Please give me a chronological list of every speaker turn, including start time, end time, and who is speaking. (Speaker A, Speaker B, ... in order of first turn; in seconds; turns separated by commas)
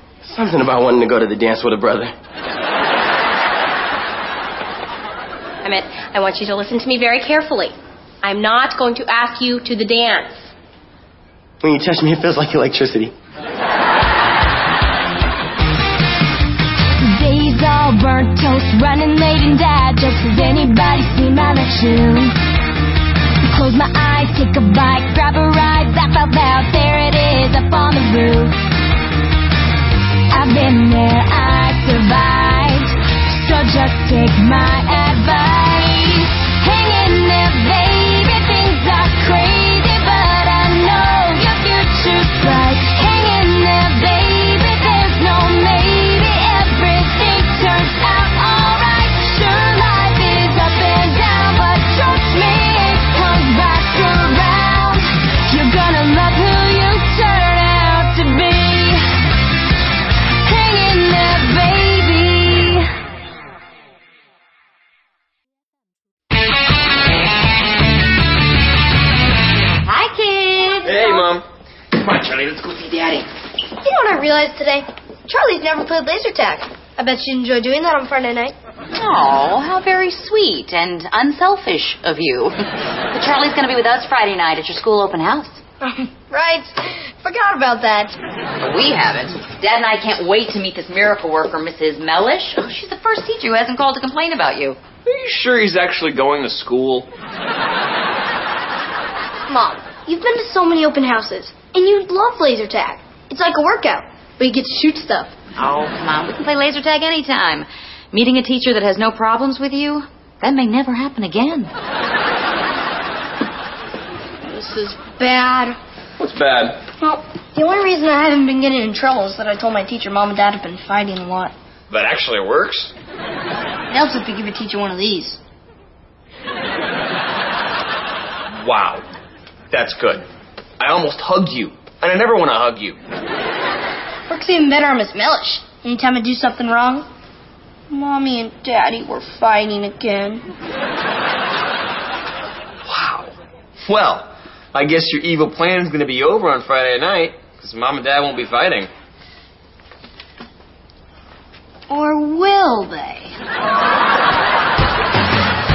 Speaker A: 0.2-2.1, Speaker B: 5.6-10.5, Speaker A: 11.6-13.1, Speaker C: 17.0-22.3, Speaker C: 23.5-28.6, Speaker C: 30.3-59.0, Speaker C: 60.4-62.9, Speaker D: 69.8-71.1, Speaker E: 70.9-71.4, Speaker E: 72.0-73.3, Speaker F: 73.8-78.5, Speaker D: 78.9-85.6, Speaker F: 85.8-88.2, Speaker D: 88.6-94.8, Speaker E: 95.0-97.1, Speaker F: 99.5-105.3, Speaker D: 105.6-111.7, Speaker F: 114.4-115.8, Speaker E: 116.2-116.8, Speaker F: 117.0-121.5, Speaker E: 121.9-122.9, Speaker F: 123.9-125.4, Speaker E: 128.6-129.0, Speaker E: 129.7-130.2, Speaker E: 130.8-133.0, Speaker F: 134.3-137.1, Speaker F: 137.9-140.4, Speaker E: 142.9-148.9, Speaker F: 151.9-153.3